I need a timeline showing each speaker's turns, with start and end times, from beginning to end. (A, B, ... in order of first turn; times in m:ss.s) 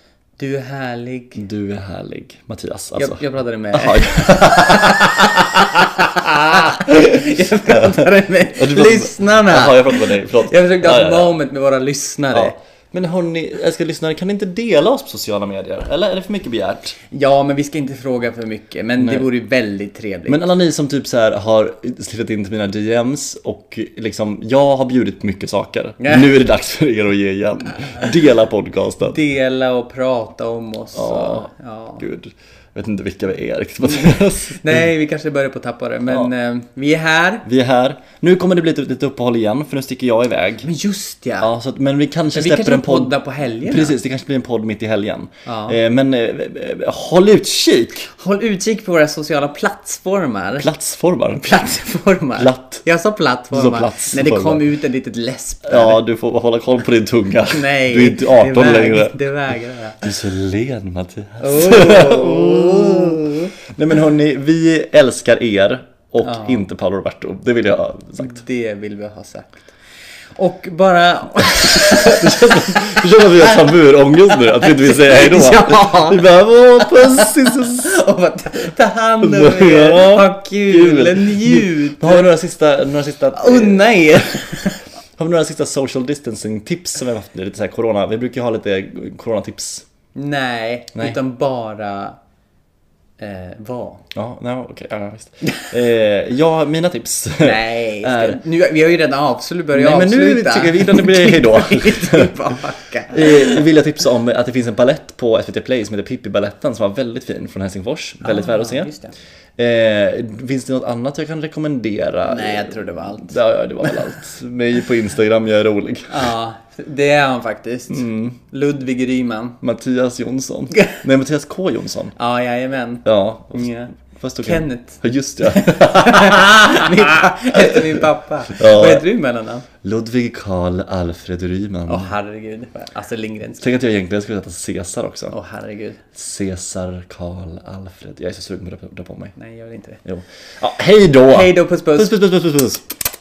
0:00.4-0:01.4 A
0:01.4-0:03.2 B
0:03.0-0:12.6 A
0:03.7-0:05.4 B
0:07.7-0:08.0 B
0:08.6-0:11.3 B
0:12.3-0:17.0 B
0:17.1-0:20.4 A
0:19.0-0:19.3 B
0:20.3-0:29.2 B
0:26.0-0:26.3 A
0:29.0-0:32.0 A
0:31.0-0:34.9 B
0:34.0-0:37.5 A
0:37.4-0:40.7 B
0:40.6-0:41.5 A
0:41.4-0:43.1 B
0:42.3-0:44.0 A
0:43.7-0:48.1 B
0:45.5-0:45.8 A
0:48.1-0:50.7 A
0:50.6-0:51.6 B
0:51.4-0:56.0 A
0:52.4-0:52.8 B
0:53.5-0:54.6 B
0:55.6-0:59.2 B
0:57.5-1:00.1 A
1:00.0-1:08.4 B
1:01.4-1:03.5 A
1:06.2-1:06.6 A
1:08.2-1:09.7 A
1:10.4-1:16.3 A
1:11.6-1:18.0 B
1:16.8-1:22.3 A
1:19.2-1:24.4 B
1:23.3-1:24.8 A
1:25.2-1:29.9 B
1:30.2-1:32.2 A
1:33.2-1:34.1 A
1:34.1-1:38.4 B
1:37.4-1:43.7 A
1:39.7-1:42.3 B
1:43.1-1:48.9 B
1:48.2-1:49.1 A
1:49.6-1:56.2 B
1:52.2-1:54.0 A
1:56.1-1:59.6 A
1:57.9-1:58.4 B
1:59.6-2:02.2 B
2:02.2-2:09.7 A
2:03.0-2:08.0 B
2:08.6-2:09.1 B
2:09.8-2:12.1 B
2:11.9-2:13.6 A
2:13.6-2:15.4 B
2:15.3-2:16.0 A
2:16.1-2:19.3 B
2:19.4-2:20.0 A
2:20.0-2:22.9 B
2:21.2-2:22.2 A